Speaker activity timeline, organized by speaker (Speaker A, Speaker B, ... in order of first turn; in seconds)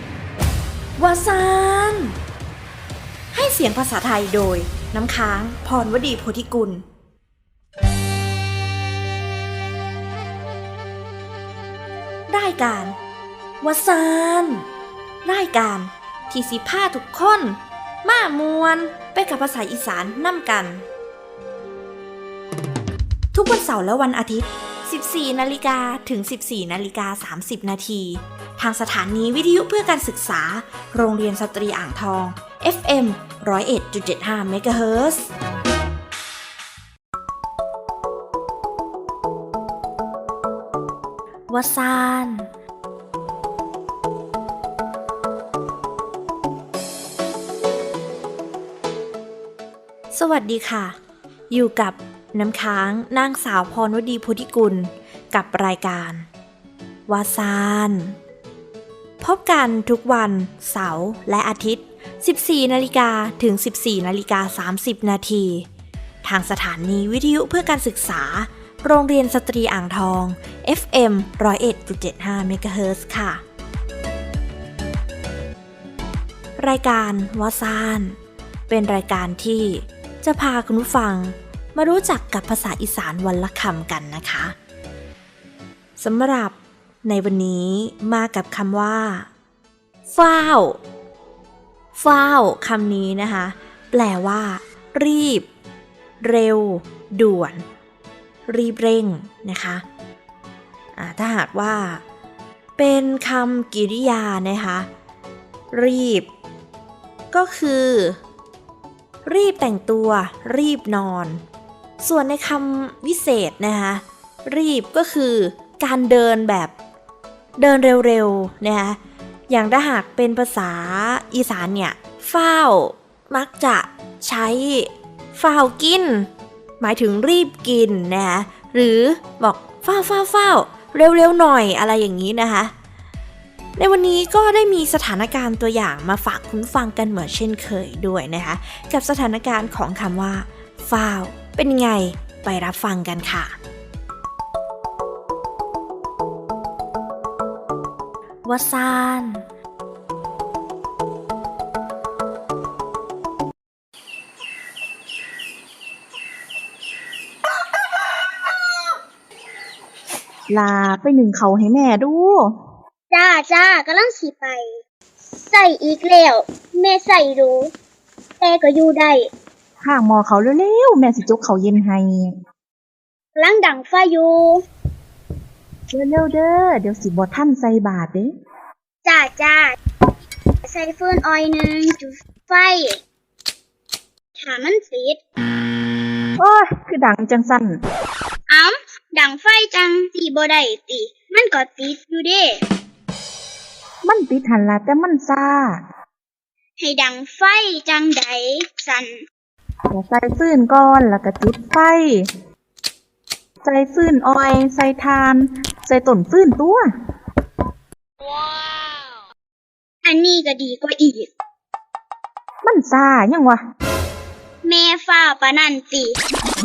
Speaker A: 1.0-2.2, 3.3-6.8, 12.3-13.0, 13.6-14.7, 15.2-20.9, 23.3-35.3, 41.5-42.5, 50.1-51.0, 51.5-56.3, 57.1-58.2, 59.2-65.7, 66.2-73.4, 76.6-78.2, 78.7-84.5, 86.0-89.3, 90.1-90.8, 91.9-95.5, 96.2-97.6, 98.5-99.8, 101.0-102.0, 102.8-104.9, 105.7-106.3, 107.3-108.2, 109.2-111.4, 112.0-116.7, 117.6-119.0, 119.5-126.3, 126.8-132.7, 133.8-143.6, 148.4-149.5
Speaker B: 160.5-162.5, 169.8-172.3, 175.9-178.3, 186.4-187.8, 194.0-195.8, 199.9-202.3, 203.6-206.9, 212.6-213.6
Speaker C: 163.1-164.7, 165.4-167.7, 168.4-169.3, 173.4-174.6, 179.0-179.8, 180.7-183.0, 184.4-185.2, 188.5-192.6, 196.8-199.2, 210.1-211.3, 214.6-216.2